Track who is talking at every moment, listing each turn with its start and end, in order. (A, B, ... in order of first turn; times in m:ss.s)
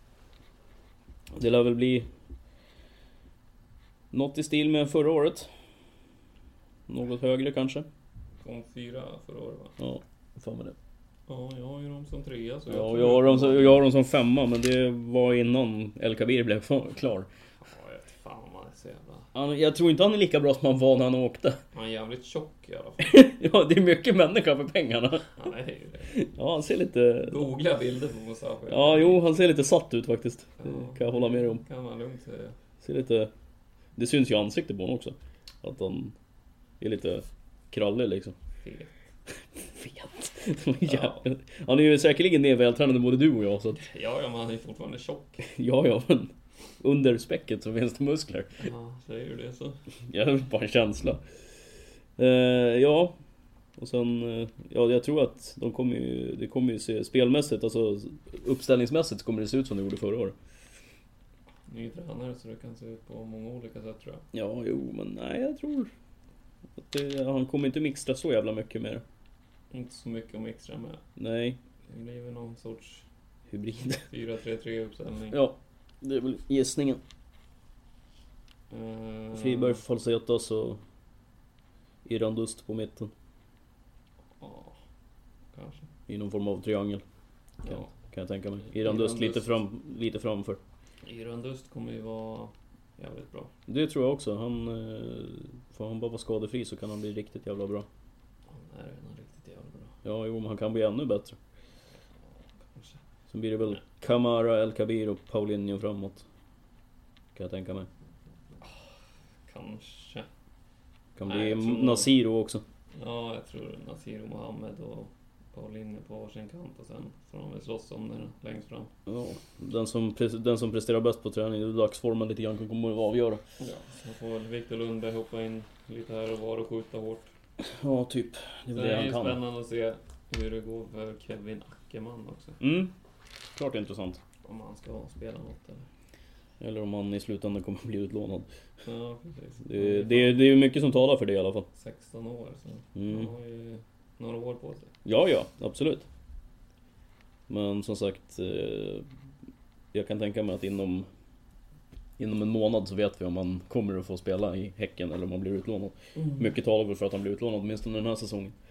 0:01.3-0:02.1 A
0:04.1-0:05.5 A
0:06.9-0:07.9 A
0:08.4-0:09.7 B
0:09.8-0:10.8 A
0:11.3-0:13.8 B
0:12.7-0:17.3 A
0:17.6-0:19.3 B
0:19.3-0:21.6 A
0:21.7-0:23.2 B
0:23.0-0:25.3 A
0:25.4-0:26.2 B
0:26.1-0:27.5 A
0:27.2-0:29.3 B
0:28.7-0:31.6 A
0:30.6-0:32.5 B
0:32.8-0:33.3 A
0:34.0-0:36.1 A
0:36.8-0:38.4 A
0:38.6-0:38.9 B
0:39.6-0:43.8 A
0:40.8-0:41.2 B
0:43.8-0:45.4 B
0:45.4-0:48.7 A
0:48.6-0:49.8 B
0:50.0-0:51.2 A
0:52.2-0:53.2 A
0:53.8-1:00.4 A
1:01.7-1:04.2 B
1:04.3-1:05.9 A
1:06.8-1:09.0 A
1:09.7-1:11.0 B
1:11.2-1:11.6 A
1:11.9-1:13.0 B
1:13.5-1:14.0 A
1:14.0-1:15.4 B
1:15.3-1:17.0 A
1:18.7-1:19.8 B
1:19.3-1:20.8 A
1:22.0-1:23.1 A
1:24.4-1:24.8 B
1:25.5-1:25.9 B
1:26.1-1:27.0 A
1:27.6-1:27.9 B
1:27.7-1:30.6 A
1:28.7-1:29.6 B
1:31.0-1:33.5 B
1:33.7-1:37.9 A
1:38.5-1:39.9 B
1:40.0-1:41.4 A
1:42.6-1:43.0 B
1:43.3-1:46.2 A
1:47.3-1:47.9 A
1:48.6-1:48.8 B
1:49.5-1:50.3 B
1:51.2-1:52.6 A
1:51.2-1:52.1 B
1:52.9-1:58.9 B
1:59.1-2:03.4 A
2:03.6-2:07.3 B
2:07.6-2:09.4 A
2:08.7-2:12.6 B
2:12.6-2:12.9 A
2:13.5-2:14.2 A
2:14.4-2:15.8 B
2:16.6-2:18.5 A
2:18.8-2:20.4 B
2:19.6-2:21.7 A
2:21.7-2:24.9 B
2:23.0-2:23.3 A
2:25.0-2:26.1 A
2:27.5-2:29.0 A
2:29.9-2:31.1 A
2:32.2-2:38.5 A
2:36.2-2:36.5 B